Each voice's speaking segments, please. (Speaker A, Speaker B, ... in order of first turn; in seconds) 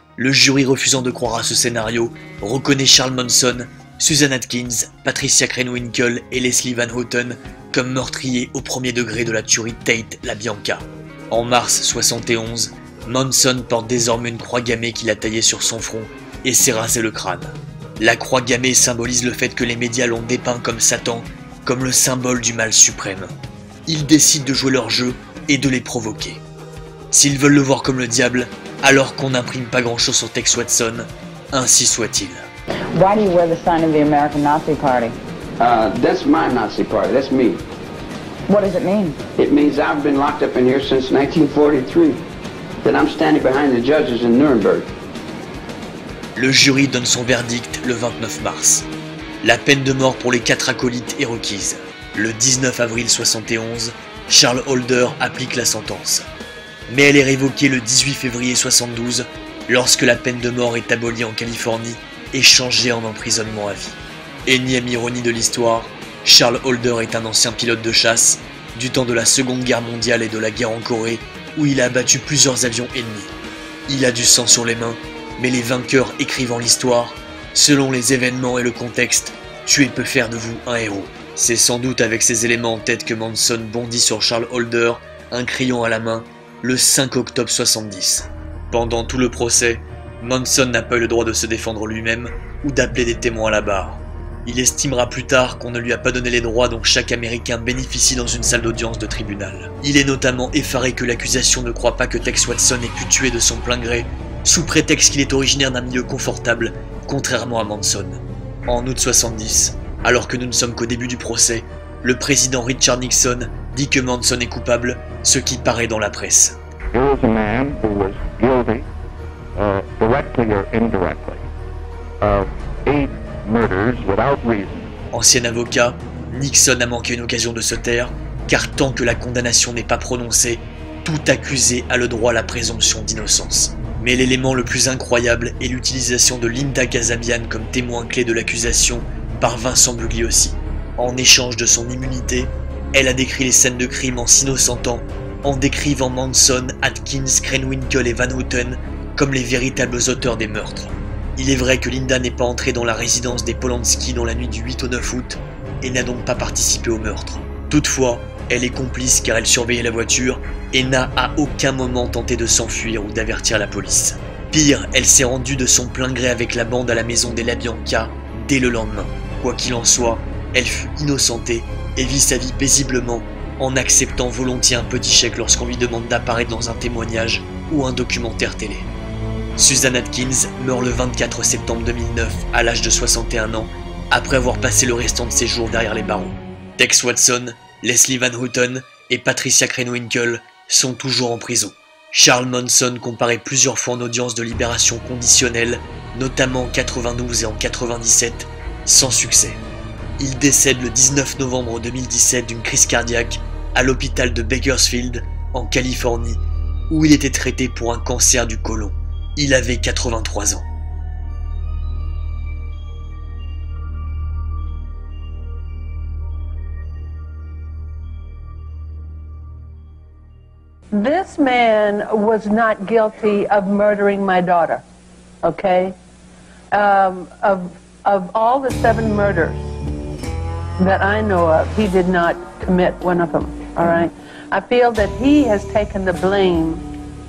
Speaker A: 0.2-23.3, 23.9-26.4, 27.1-32.5, 46.3-48.9, 49.4-56.2, 56.9-73.3, 73.9-116.5, 125.1-178.9, 179.6-199.6, 200.2-210.7
Speaker B: 32.9-35.1, 38.5-39.2
Speaker C: 35.6-37.6, 39.4-42.2, 42.8-44.9
Speaker D: 116.9-118.8, 119.6-121.4, 122.2-124.7
Speaker E: 220.9-224.8, 225.4-225.9, 226.7-229.6, 230.8-236.8